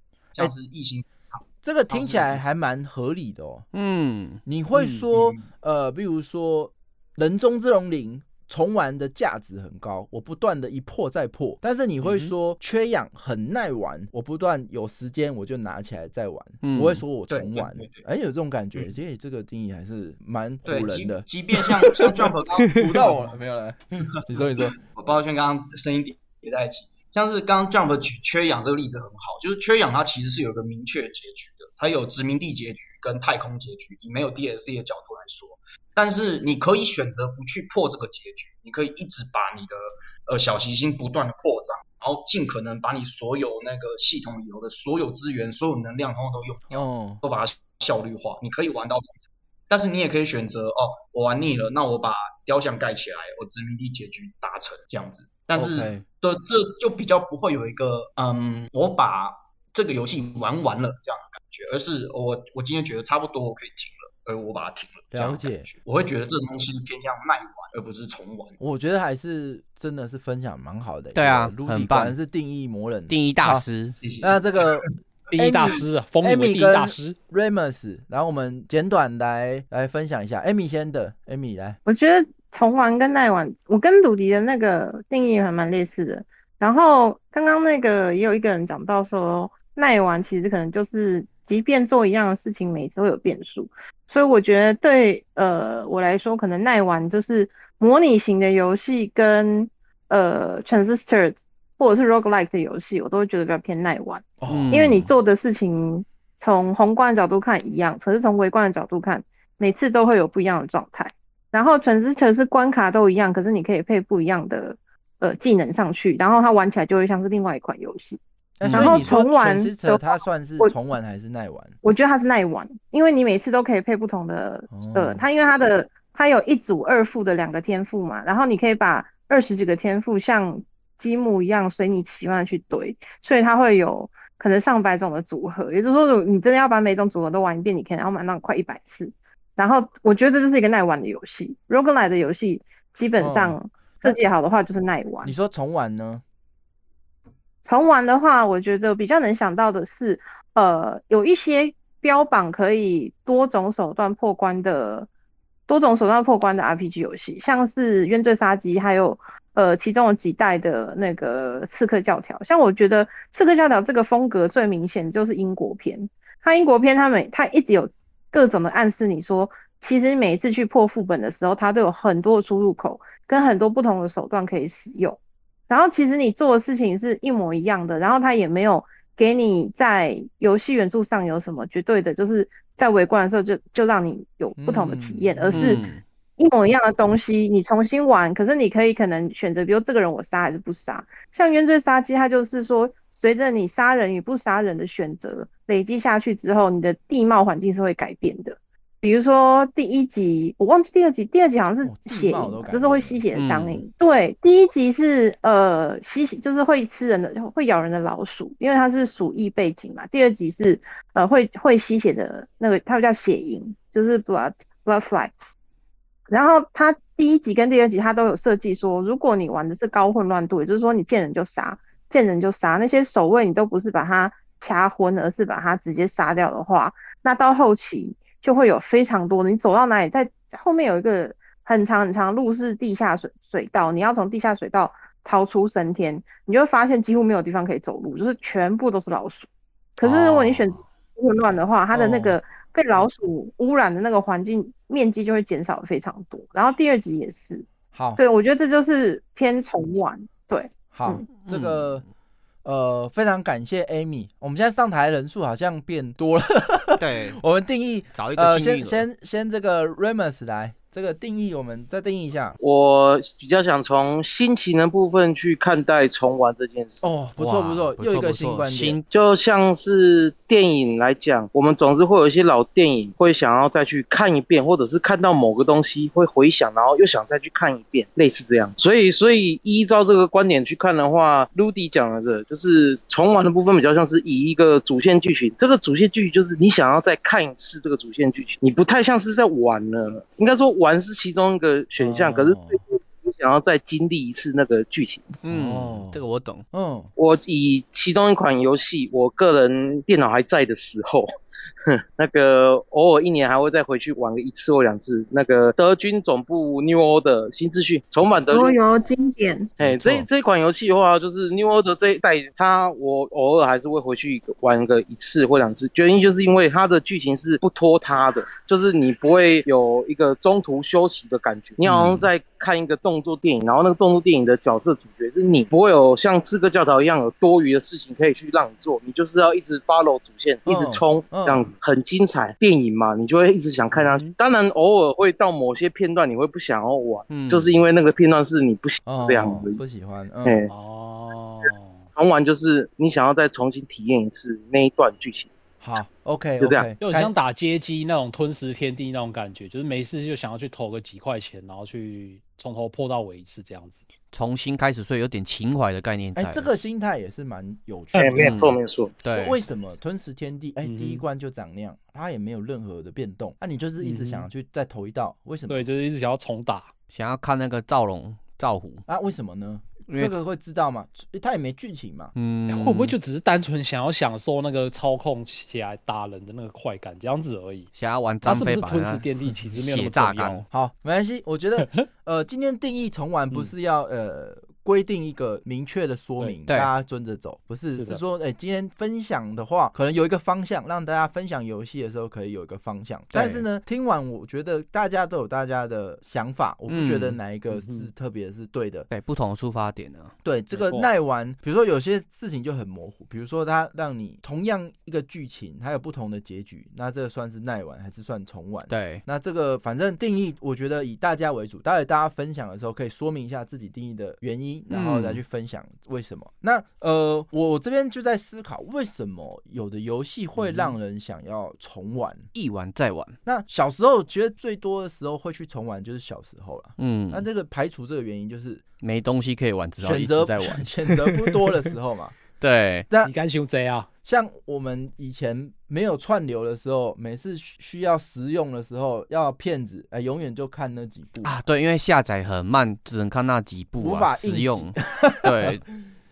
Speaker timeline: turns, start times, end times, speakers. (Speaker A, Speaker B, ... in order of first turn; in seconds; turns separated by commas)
Speaker A: 0.4-2.4, Speaker B: 1.6-3.7, Speaker C: 3.7-4.4, Speaker B: 4.5-21.3, Speaker D: 4.7-5.1, Speaker A: 5.1-5.5, Speaker D: 12.0-12.3, Speaker C: 16.6-17.0, Speaker A: 17.3-18.0, Speaker A: 20.7-23.4, Speaker B: 22.7-24.8, Speaker A: 24.1-68.6, Speaker B: 46.7-47.2, Speaker B: 55.5-56.0, Speaker B: 65.1-65.7, Speaker B: 68.6-73.7, Speaker C: 71.1-72.2, Speaker C: 73.1-74.0, Speaker A: 74.0-74.9, Speaker B: 74.2-81.8, Speaker D: 75.3-77.2, Speaker E: 81.9-120.7, Speaker B: 104.4-104.7, Speaker C: 104.5-105.1, Speaker B: 118.6-121.8, Speaker C: 118.6-119.2, Speaker E: 121.8-145.3, Speaker B: 124.7-125.2, Speaker B: 143.2-144.2, Speaker B: 145.2-146.2, Speaker E: 147.7-155.1, Speaker E: 155.7-175.2, Speaker E: 175.7-185.9, Speaker B: 184.6-185.8, Speaker C: 185.5-186.0, Speaker E: 186.4-215.3, Speaker B: 201.8-203.2, Speaker C: 203.3-203.8, Speaker E: 216.3-251.3, Speaker C: 240.0-240.8, Speaker B: 241.9-242.2, Speaker B: 247.9-248.2, Speaker B: 250.9-252.0, Speaker C: 251.4-252.0, Speaker B: 252.6-262.6, Speaker C: 257.0-257.4, Speaker C: 258.1-259.1, Speaker F: 262.6-267.1, Speaker B: 267.0-269.0, Speaker C: 267.4-269.1, Speaker F: 269.1-295.3, Speaker B: 292.0-292.8, Speaker C: 295.4-296.6, Speaker B: 295.4-297.1, Speaker F: 297.2-301.3, Speaker F: 302.2-308.8, Speaker E: 308.5-309.8, Speaker F: 309.8-339.8, Speaker C: 309.8-310.3, Speaker B: 321.8-322.3, Speaker B: 330.7-331.7, Speaker D: 333.9-334.3, Speaker C: 337.3-337.8, Speaker B: 339.1-340.6, Speaker F: 340.4-340.7, Speaker D: 340.7-342.0, Speaker F: 342.2-345.5, Speaker B: 345.8-347.3, Speaker F: 346.6-346.9, Speaker D: 347.0-354.0, Speaker C: 354.3-356.7, Speaker B: 356.4-358.6, Speaker F: 358.2-359.2, Speaker C: 358.4-359.6, Speaker B: 359.2-365.9, Speaker D: 360.8-361.2, Speaker D: 364.0-364.5, Speaker D: 365.7-366.9, Speaker C: 367.1-369.0, Speaker B: 369.1-372.3, Speaker C: 370.1-370.4, Speaker C: 372.4-373.1, Speaker D: 372.7-377.9, Speaker C: 378.0-380.6, Speaker D: 378.5-380.6, Speaker B: 380.7-399.1, Speaker D: 388.0-388.2, Speaker C: 393.3-393.6, Speaker C: 396.9-397.4, Speaker D: 397.7-398.1, Speaker C: 399.1-400.3, Speaker B: 400.4-422.5, Speaker D: 400.7-401.1, Speaker C: 408.9-409.2, Speaker C: 414.9-415.4, Speaker C: 422.6-423.4, Speaker B: 423.5-428.8, Speaker C: 427.0-427.4, Speaker C: 429.0-431.9, Speaker B: 430.0-432.4, Speaker C: 432.6-433.1, Speaker D: 433.2-434.1, Speaker B: 434.2-441.6, Speaker C: 441.4-445.9, Speaker B: 444.0-445.8